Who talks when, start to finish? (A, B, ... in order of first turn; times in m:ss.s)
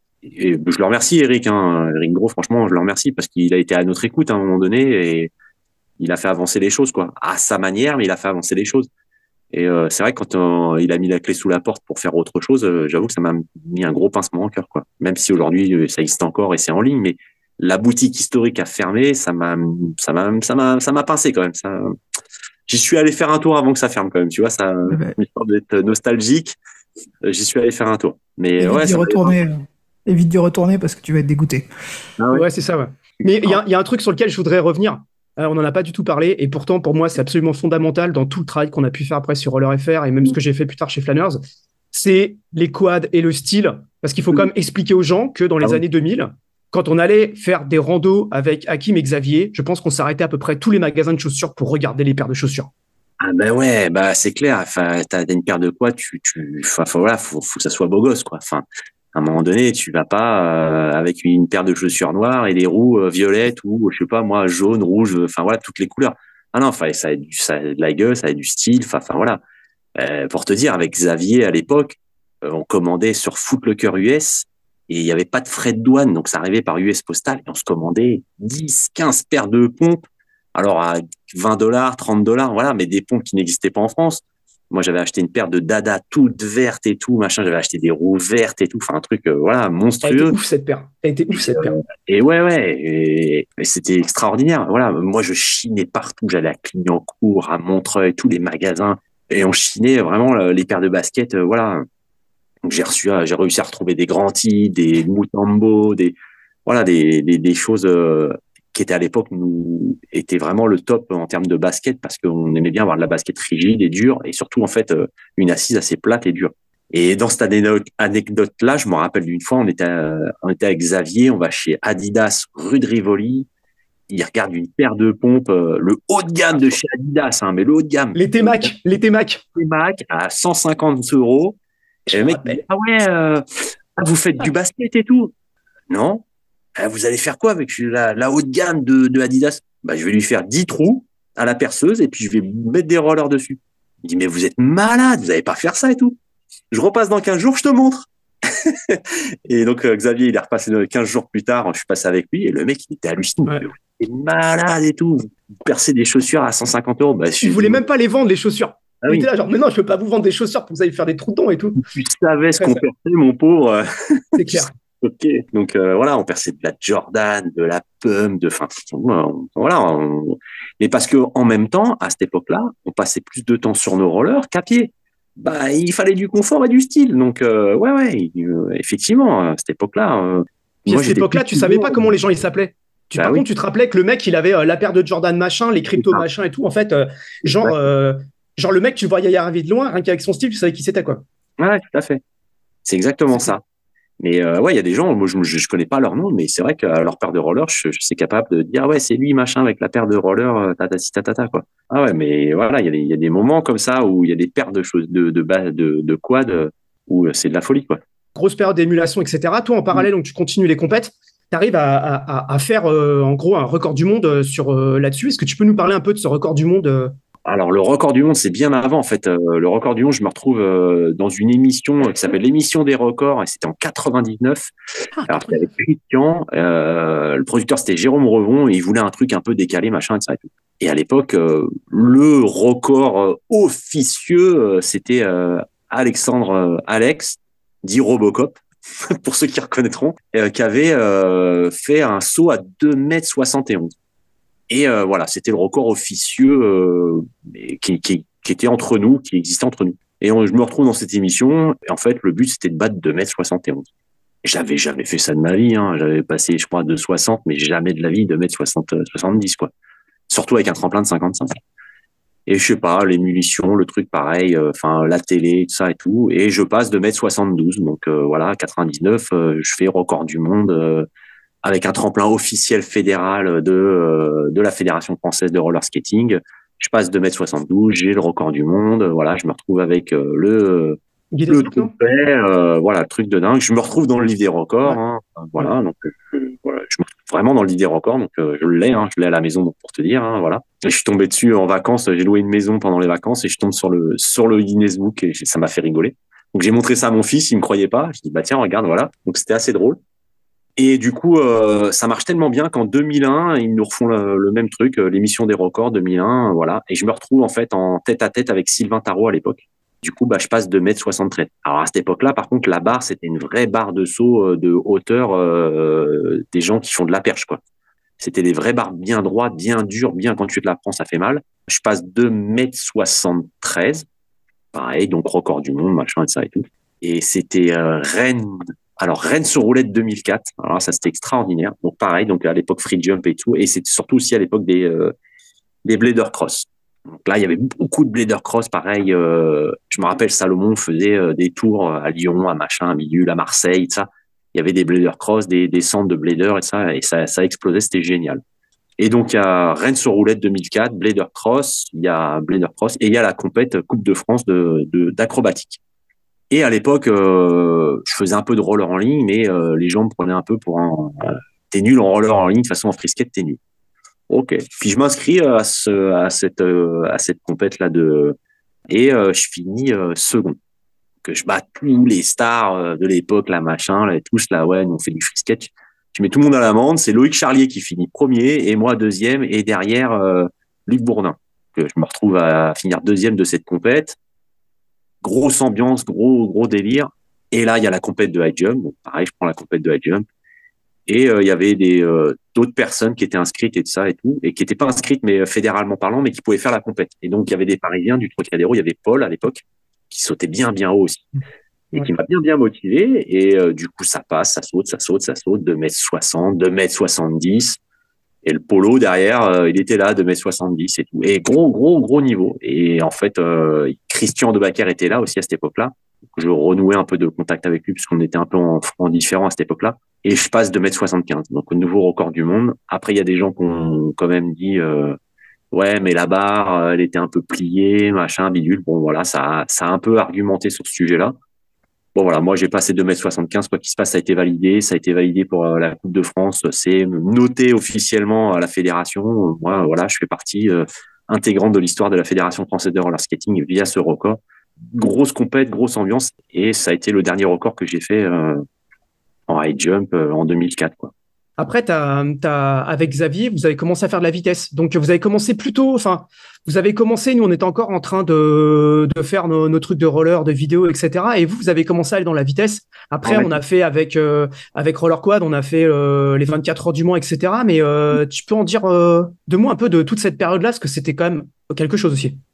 0:00.2-0:05.3 A
0:06.0-0:08.9 A
0:09.5-0:21.9 A
0:22.7-0:26.6 A
0:24.8-0:25.1 B
0:27.2-0:29.4 A
0:28.6-0:31.7 B
0:32.2-0:32.4 A
0:32.3-0:41.4 C
0:41.9-0:52.7 C
0:53.2-1:09.4 A
1:10.0-1:30.4 A
1:30.0-1:31.8 C
1:31.3-1:41.8 A
1:42.6-2:03.5 A
2:04.1-2:08.7 A
2:08.1-2:09.4 C
2:09.5-2:11.6 A
2:12.1-2:12.6 C
2:12.1-2:13.4 A
2:14.0-2:15.3 A
2:15.9-2:16.2 A
2:16.8-2:26.2 A
2:26.7-2:37.8 A
2:37.4-2:41.8 C
2:39.0-2:39.3 A
2:41.8-3:02.1 A
2:42.6-2:42.8 C
2:44.4-2:44.7 C
3:00.9-3:11.2 C
3:03.1-3:03.4 A
3:06.0-3:06.2 A
3:11.6-3:12.2 A
3:12.8-3:13.6 A
3:14.2-3:28.0 A
3:28.4-3:37.1 C
3:37.4-3:44.7 A
3:45.2-3:45.7 C
3:45.3-4:03.9 A
4:04.7-4:13.8 A
4:14.4-4:19.7 A
4:20.3-4:21.5 A
4:22.5-4:31.1 A
4:31.6-4:41.0 A
4:41.3-4:41.9 C
4:41.5-5:00.0 A
5:00.8-5:17.6 A
5:18.2-5:24.0 A
5:24.7-5:35.1 A
5:35.8-5:48.4 A
5:49.0-5:55.8 A
5:56.5-6:03.6 A
6:04.3-6:08.4 A
6:08.9-6:10.6 A
6:11.2-6:24.2 A
6:25.2-6:30.2 A
6:31.1-6:41.3 A
6:41.9-6:47.8 A
6:48.4-7:05.2 A
7:05.7-7:11.3 A
7:12.1-7:24.4 A
7:24.9-7:28.6 A
7:29.5-7:31.1 A
7:31.6-7:52.4 C
7:43.2-7:43.6 A